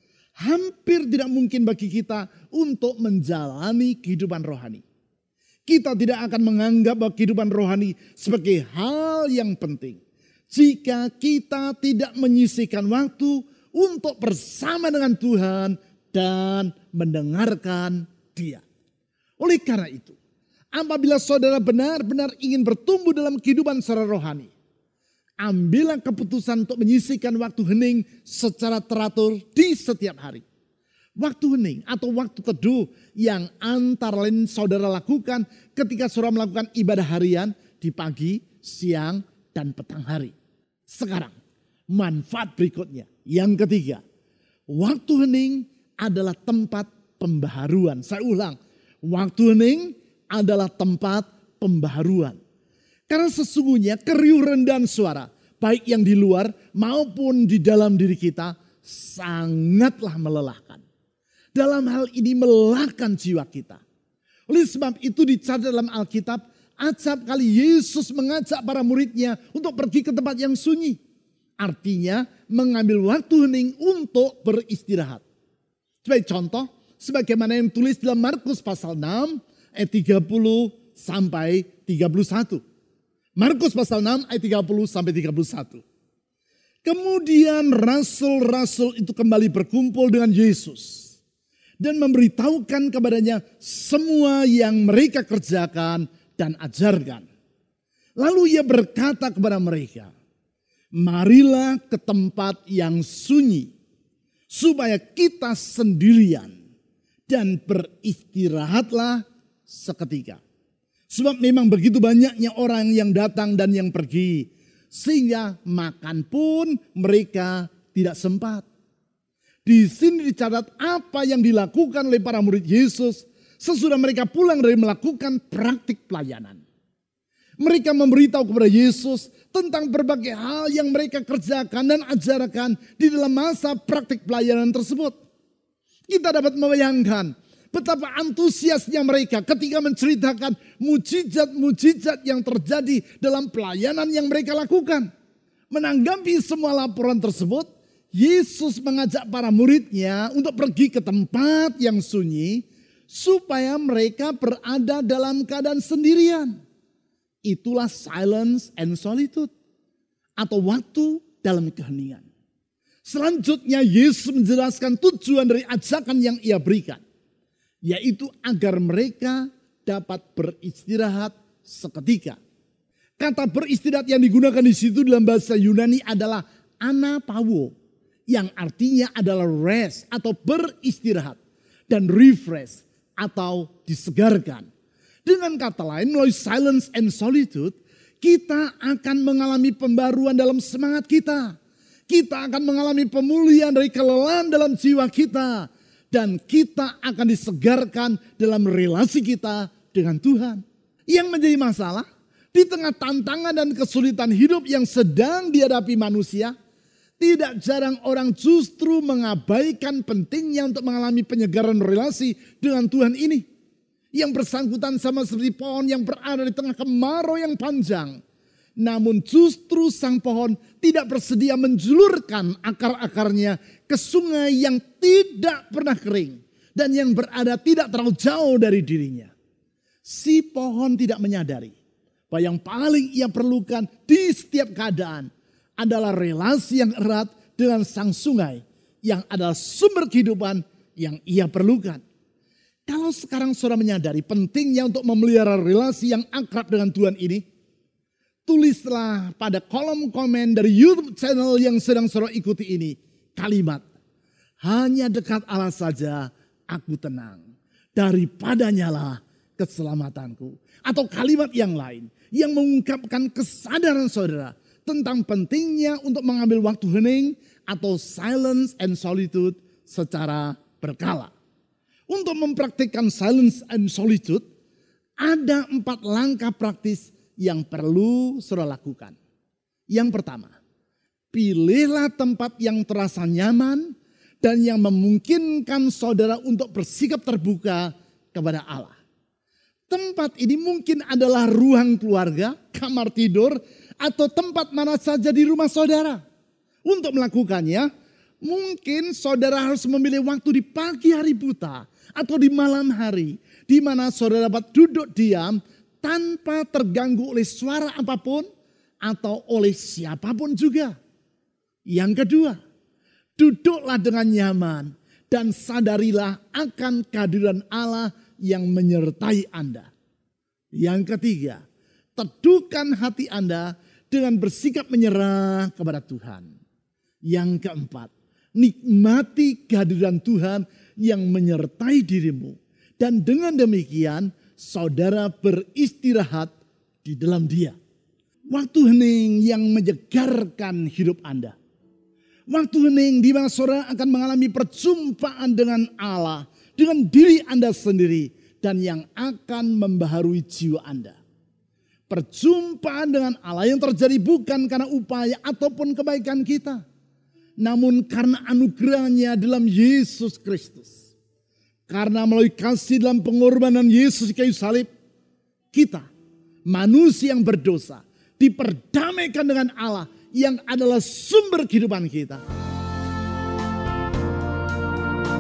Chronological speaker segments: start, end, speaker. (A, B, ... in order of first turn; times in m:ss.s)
0:00.4-0:04.8 A
0:05.7-0:10.0 A
0:10.5-0:18.6 A
0:19.4-0:20.2 A
0:20.7-0:24.5 A
0:25.4-0:30.4 A
0:31.2-0:40.3 A
0:40.9-0:41.4 A
0:41.9-0:44.0 A
0:44.7-0:52.4 A
0:53.1-1:00.8 A
1:01.6-1:03.8 A
1:04.5-1:11.0 A
1:11.6-1:15.2 A
1:16.0-1:22.6 A
1:23.4-1:25.8 A
1:26.8-1:31.1 A
1:31.8-1:37.3 A
1:38.2-1:40.1 A
1:40.9-1:43.7 A
1:44.5-1:46.6 A
1:47.3-1:50.4 A
1:51.1-1:58.6 A
1:59.7-2:06.6 A
2:07.6-2:15.2 A
2:16.1-2:25.1 A
2:25.7-2:36.6 A
2:37.5-2:39.5 A
2:40.4-2:42.2 A
2:43.1-2:47.0 A
2:47.8-2:52.4 A
2:53.2-2:57.7 A
2:58.3-3:01.4 A
3:01.9-3:04.7 A
3:05.2-3:11.6 A
3:12.1-3:26.5 A
3:27.2-3:33.4 A
3:34.1-3:38.2 A
3:38.8-3:49.3 A
3:50.0-3:51.8 A
3:52.3-3:55.3 A
3:55.8-4:02.0 A
4:02.9-4:07.4 A
4:08.5-4:13.8 A
4:14.6-4:17.4 A
4:18.0-4:31.3 A
4:32.1-4:34.4 A
4:35.2-4:39.2 A
4:39.9-4:40.5 A
4:41.3-4:49.0 A
4:49.9-4:56.2 A
4:56.9-4:57.9 A
4:58.4-5:08.5 A
5:09.0-5:10.9 A
5:11.9-5:12.6 A
5:13.4-5:19.9 A
5:20.8-5:21.6 A
5:22.2-5:26.5 A
5:27.3-5:36.5 A
5:37.0-5:37.8 A
5:38.5-5:41.6 A
5:42.5-5:51.2 A
5:52.1-5:56.8 A
5:57.6-6:01.0 A
6:01.9-6:04.9 A
6:05.7-6:06.1 A
6:06.7-6:12.4 A